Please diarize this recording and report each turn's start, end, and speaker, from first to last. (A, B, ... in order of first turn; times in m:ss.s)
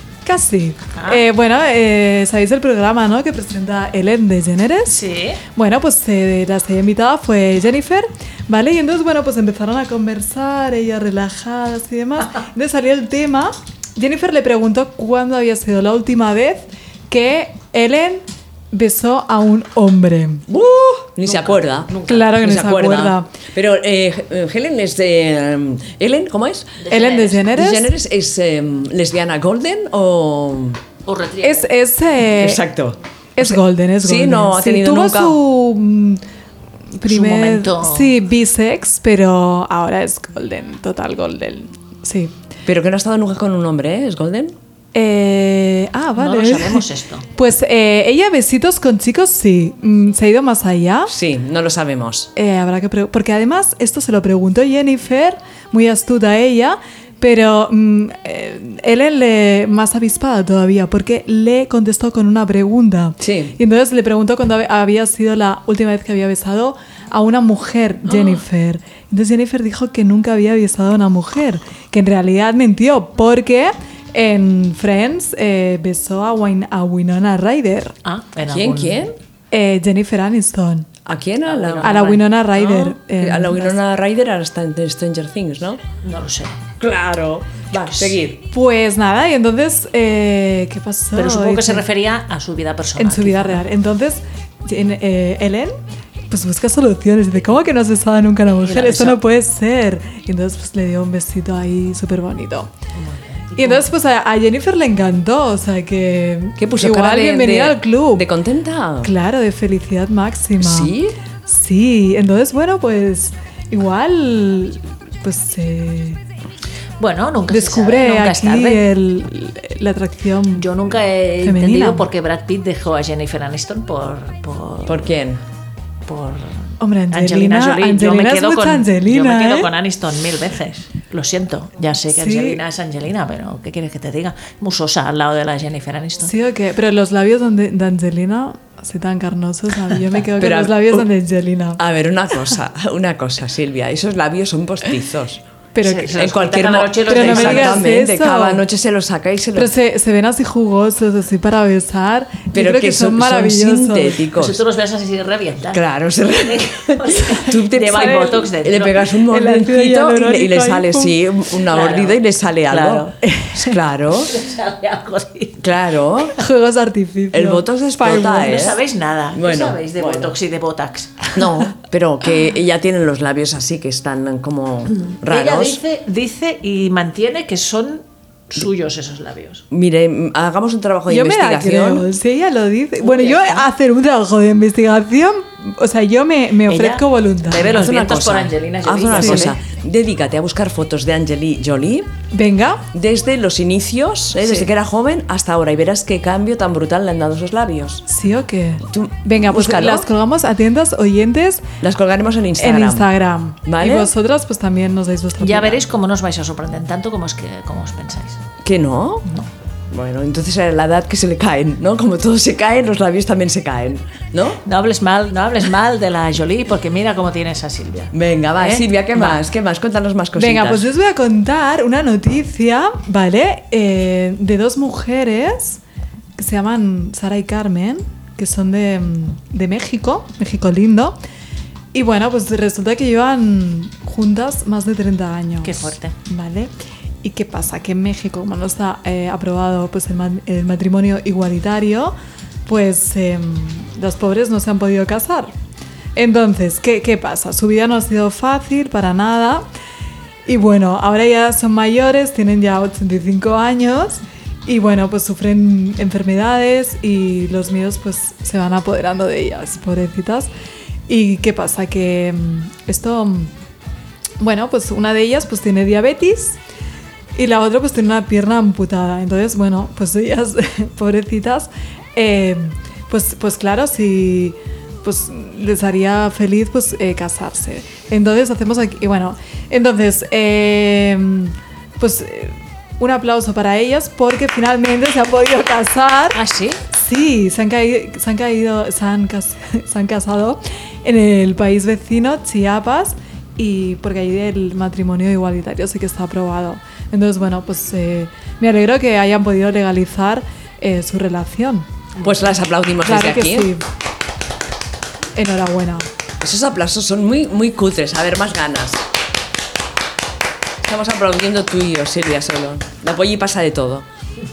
0:00.2-0:05.0 A
0:01.0-0:01.2 B
0:04.9-0:05.4 B
0:05.6-0:20.4 A
0:20.5-0:26.8 C
0:21.2-0:22.3 B
0:22.1-0:23.3 A
0:26.8-0:27.6 B
0:26.9-0:27.9 A
0:27.6-0:30.8 C
0:31.1-0:31.7 B
0:31.4-0:32.6 A
0:32.2-0:35.4 C
0:33.4-0:36.2 A
0:37.0-0:42.3 A
0:37.1-0:38.2 B
0:42.7-0:44.6 C
0:44.9-0:46.8 A
0:46.2-0:47.3 B
0:47.4-0:51.1 A
0:51.1-0:52.3 C
0:52.4-1:18.0 A
1:03.2-1:03.6 C
1:08.1-1:08.4 C
1:18.0-1:19.1 B
1:18.5-1:19.1 C
1:19.5-1:20.9 A
1:21.1-1:22.0 C
1:21.4-1:22.9 B
1:21.8-1:23.8 A
1:22.9-1:25.8 C
1:26.0-1:26.6 B
1:26.8-1:28.4 C
1:27.9-1:28.2 B
1:28.5-1:31.8 A
1:31.2-1:33.6 B
1:33.0-1:35.8 A
1:36.3-1:42.7 A
1:38.6-1:39.2 B
1:43.0-1:43.9 B
1:43.6-1:48.3 A
1:46.6-1:49.1 C
1:49.0-1:50.9 A
1:50.6-1:51.2 C
1:51.5-1:56.2 A
1:57.0-1:58.8 B
1:57.5-2:00.7 A
2:00.6-2:05.1 B
2:01.4-2:02.1 A
2:04.9-2:05.4 C
2:06.1-2:16.3 B
2:06.8-2:09.7 A
2:12.1-2:12.6 A
2:16.2-2:21.8 A
2:20.4-2:21.1 C
2:21.8-2:25.4 C
2:25.8-2:26.1 A
2:25.8-2:27.9 B
2:26.1-2:29.7 C
2:27.1-2:28.6 A
2:29.6-2:34.2 A
2:32.5-2:34.6 C
2:34.4-2:35.8 B
2:35.7-2:44.4 C
2:36.5-2:39.1 B
2:38.0-2:38.3 A
2:39.3-2:41.2 A
2:41.6-2:43.1 B
2:44.3-2:45.6 B
2:45.6-2:46.3 C
2:46.4-2:48.7 A
2:47.3-2:48.8 C
2:48.2-2:51.4 B
2:49.3-2:50.4 C
2:51.4-2:55.8 C
2:55.0-2:59.6 B
2:59.7-3:02.1 C
3:01.1-3:07.7 A
3:03.0-3:03.7 B
3:06.7-3:09.6 B
3:07.6-3:12.1 C
3:09.2-3:09.5 A
3:12.3-3:12.8 A
3:12.9-3:18.0 C
3:14.4-3:14.7 B
3:18.1-3:21.7 A
3:18.9-3:20.1 C
3:21.8-3:23.1 C
3:22.6-3:25.8 A
3:23.6-3:24.1 C
3:25.4-3:28.4 B
3:28.6-3:29.3 C
3:29.9-3:34.6 C
3:34.6-3:38.1 B
3:38.1-3:40.9 C
3:39.1-3:39.4 B
3:40.4-3:45.8 A
3:46.4-3:51.2 A
3:51.9-3:56.7 A
3:55.6-3:56.2 B
3:57.2-4:02.2 A
4:02.7-4:05.5 A
4:06.2-4:09.7 A
4:10.5-4:20.5 A
4:21.1-4:23.5 A
4:24.4-4:26.6 A
4:27.4-4:46.4 A
4:46.3-4:46.8 B
4:46.9-5:01.9 A
5:02.2-5:03.7 C
5:03.0-5:03.8 A
5:05.4-5:06.1 A
5:06.4-5:09.0 C
5:10.8-5:14.1 C